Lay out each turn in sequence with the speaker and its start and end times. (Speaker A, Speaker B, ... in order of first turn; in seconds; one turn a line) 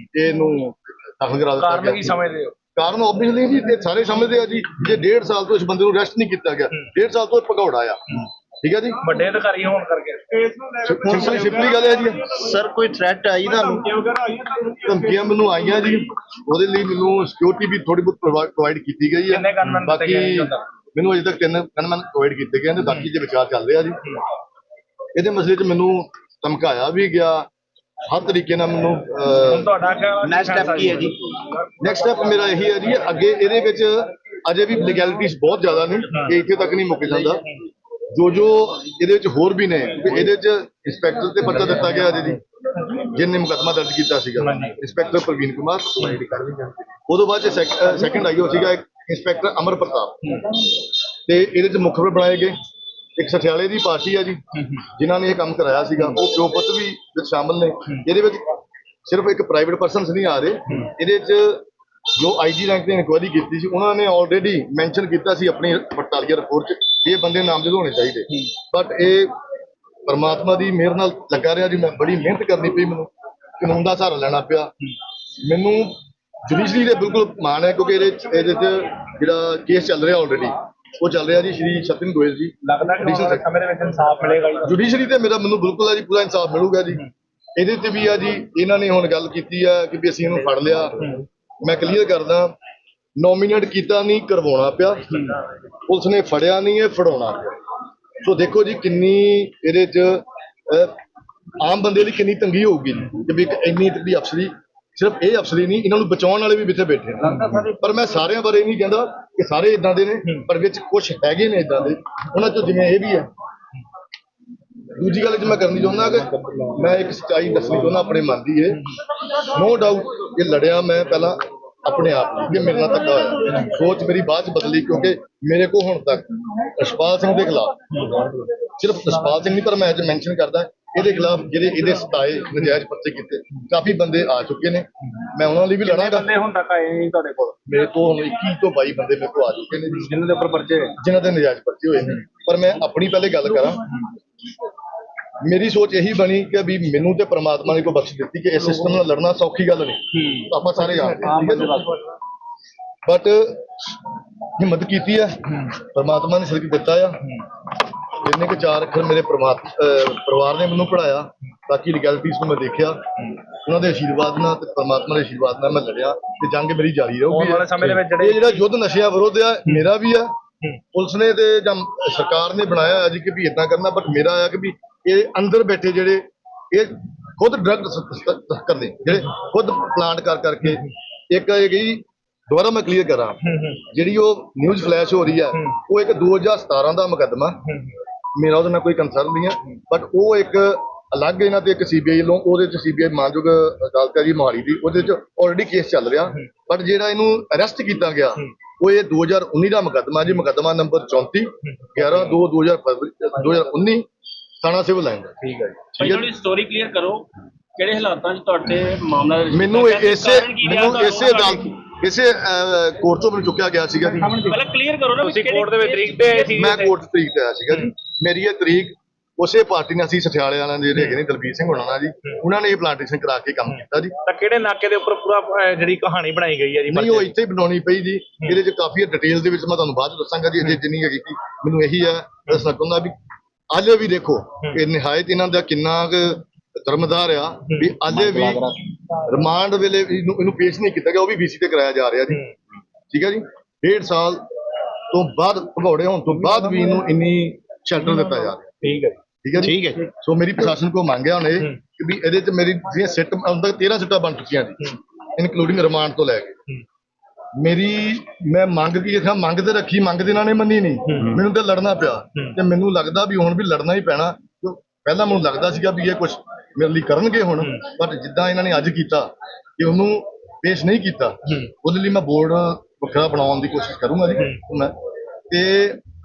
Speaker A: 0.1-2.2
Speaker B: 1.6-2.5
Speaker A: 2.8-9.0
Speaker B: 9.0-11.8
Speaker A: 10.9-12.2
Speaker C: 10.9-11.5
Speaker C: 12.3-13.9
Speaker B: 13.4-15.9
Speaker A: 14.8-24.0
Speaker B: 19.3-20.6
Speaker A: 25.1-27.5
Speaker A: 28.1-29.7
Speaker B: 29.4-31.1
Speaker C: 30.2-31.1
Speaker A: 31.8-37.4
Speaker A: 38.1-42.4
Speaker A: 42.9-46.2
Speaker B: 44.4-44.8
Speaker C: 46.2-46.7
Speaker A: 47.1-50.7
Speaker A: 51.3-52.5
Speaker A: 53.2-58.5
Speaker A: 59.0-69.3
Speaker A: 70.1-74.7
Speaker A: 75.4-83.5
Speaker B: 82.6-84.8
Speaker A: 84.7-87.0
Speaker A: 87.6-91.1
Speaker A: 91.6-92.5
Speaker A: 93.2-95.2
Speaker B: 95.1-95.4
Speaker A: 95.8-97.5
Speaker A: 98.2-101.0
Speaker A: 101.6-113.3
Speaker C: 107.3-107.7
Speaker B: 107.3-107.6
Speaker A: 115.0-127.8
Speaker B: 127.9-128.3
Speaker A: 128.8-136.3
Speaker B: 131.2-131.4
Speaker B: 135.8-137.6
Speaker A: 137.7-140.1
Speaker B: 140.0-140.9
Speaker A: 141.0-143.8
Speaker A: 145.4-151.8
Speaker B: 150.1-152.0
Speaker A: 153.1-153.9
Speaker A: 154.6-157.2
Speaker A: 158.1-170.3
Speaker B: 167.3-168.7
Speaker A: 170.9-187.6
Speaker B: 183.4-183.8
Speaker A: 188.3-204.1
Speaker B: 201.7-202.1
Speaker A: 204.6-206.3
Speaker D: 206.0-211.7
Speaker A: 209.5-214.4
Speaker B: 214.2-214.6
Speaker D: 214.4-216.6
Speaker B: 215.2-216.9
Speaker A: 216.5-224.1
Speaker B: 224.2-227.3
Speaker A: 226.9-233.1
Speaker A: 233.7-238.7
Speaker C: 238.2-238.7
Speaker A: 239.3-242.4
Speaker A: 243.1-244.4
Speaker A: 245.1-248.8
Speaker B: 248.8-249.2
Speaker A: 249.4-256.5
Speaker C: 249.6-250.0
Speaker A: 257.6-274.9
Speaker B: 261.1-261.4
Speaker A: 275.5-276.0